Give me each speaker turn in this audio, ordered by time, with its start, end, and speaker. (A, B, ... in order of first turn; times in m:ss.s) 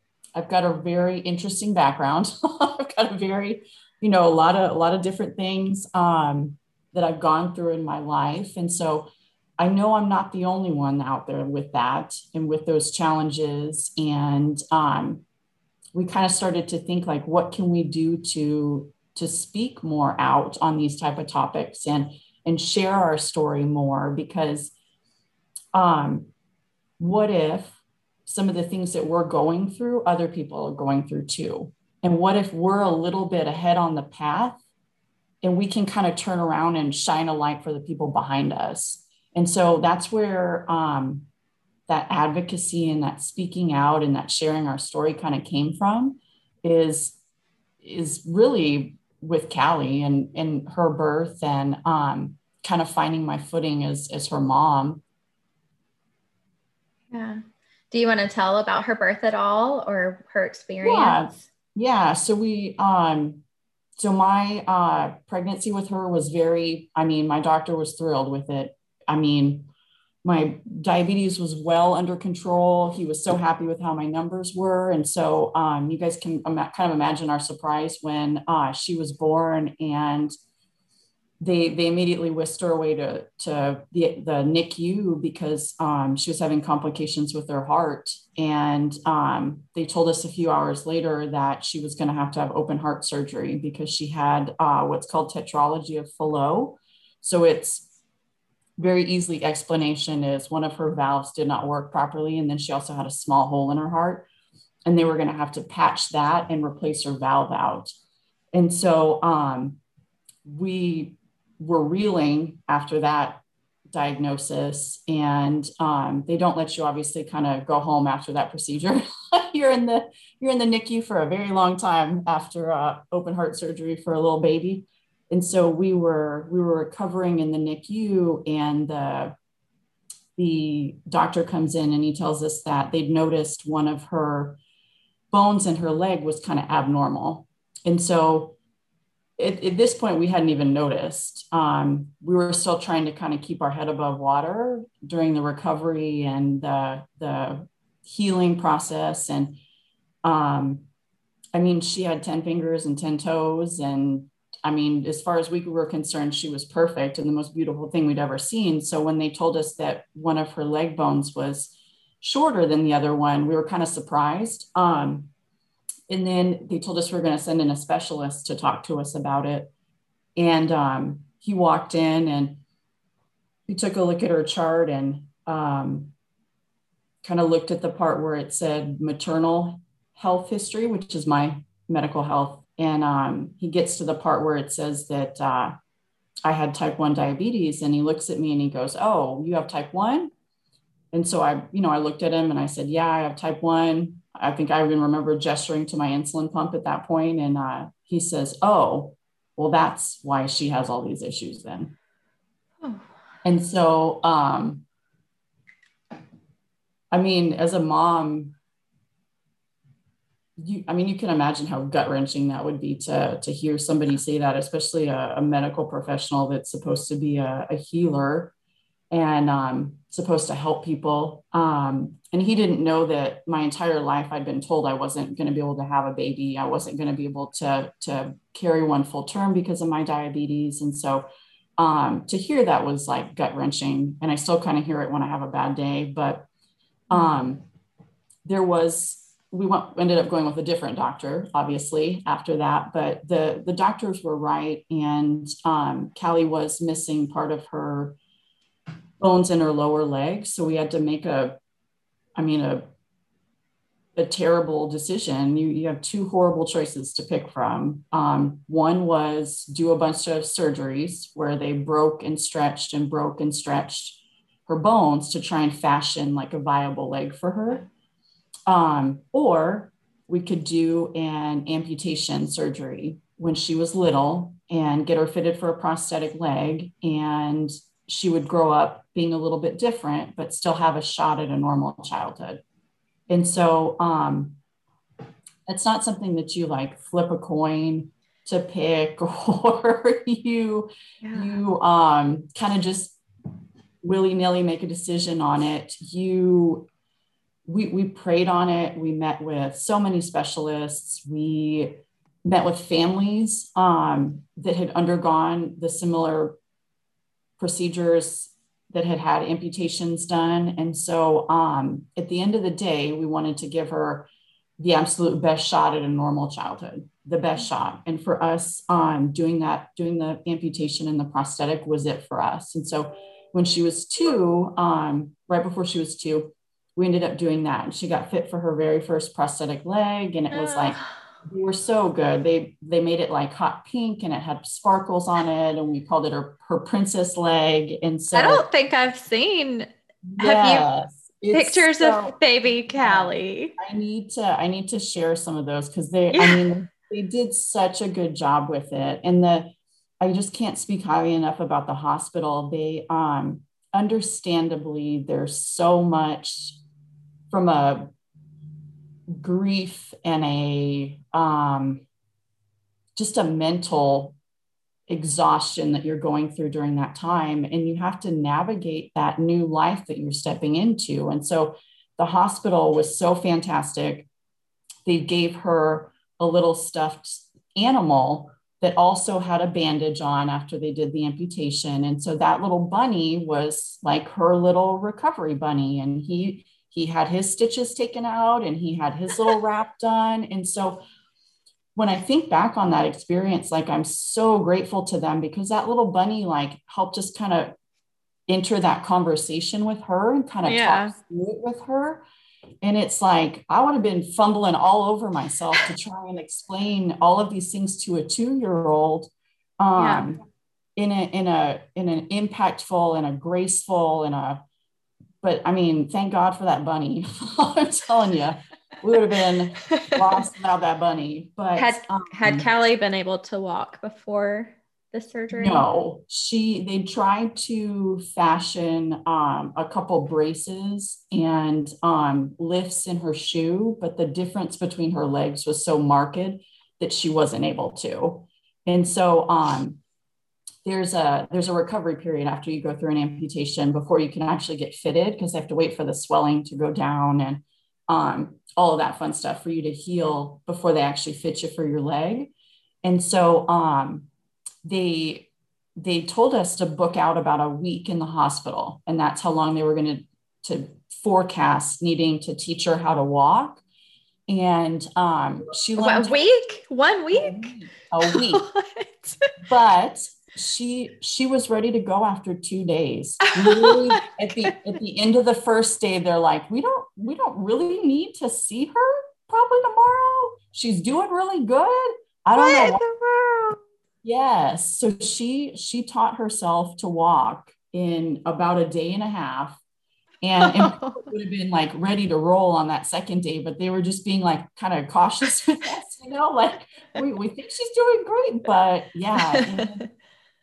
0:00.4-0:15.2 A
0:15.9-0:24.7 A
0:25.7-0:26.3 A
0:27.0-0:34.6 A
0:35.4-0:41.3 A
0:41.9-0:47.2 A
0:47.8-0:55.0 A
0:57.1-1:01.4 B
1:00.8-1:03.4 A
1:04.0-1:09.7 A
1:10.2-1:20.3 A
1:21.4-1:37.9 A
1:38.8-1:44.3 A
1:44.9-1:47.9 A
1:48.5-1:49.8 A
1:50.4-2:09.3 A
2:10.4-2:14.6 A
2:15.3-2:18.6 A
2:19.4-2:29.6 A
2:30.2-2:30.8 A
2:31.6-2:45.3 A
2:46.1-2:49.7 A
2:50.4-2:52.6 A
2:53.7-2:56.1 A
2:57.2-3:05.7 A
3:06.5-3:10.3 A
3:11.1-3:21.9 A
3:23.4-3:24.8 A
3:27.1-3:28.6 A
3:30.6-3:38.5 A
3:39.1-3:51.3 A
3:51.8-3:56.5 A
3:57.1-3:57.6 A
3:58.4-4:08.2 A
4:09.2-4:11.6 A
4:12.4-4:12.9 A
4:14.2-4:27.9 A
4:28.7-4:42.6 A
4:43.3-4:44.6 A
4:45.7-4:53.2 A
4:51.2-4:51.6 B
4:54.0-4:56.9 A
4:57.7-5:06.6 A
5:07.6-5:38.6 A
5:30.5-5:31.1 B
5:38.3-5:40.9 B
5:40.3-5:42.4 A
5:41.5-5:43.8 B
5:42.9-5:56.8 A
5:46.3-5:46.8 B
5:57.5-5:58.1 A
5:59.3-6:02.0 A
6:03.2-6:04.4 A
6:05.1-6:14.3 A
6:15.0-6:31.0 A
6:32.0-6:37.8 A
6:38.5-6:42.2 A
6:40.7-6:41.2 B
6:42.8-6:50.4 A
6:50.0-6:50.3 B
6:51.0-6:54.6 A
6:55.4-7:02.7 A
6:59.9-7:00.4 B
7:01.8-7:05.8 B
7:05.5-7:20.0 A
7:20.8-7:32.5 A
7:33.0-7:34.3 A
7:34.8-7:43.8 A
7:44.5-7:46.5 A
7:46.0-7:49.5 B
7:47.3-7:48.6 A
7:49.6-8:03.0 A
7:53.5-7:54.7 B
8:02.6-8:03.8 B
8:04.2-8:09.8 A
8:10.4-8:20.1 A
8:10.6-8:11.3 B
8:19.5-8:20.0 B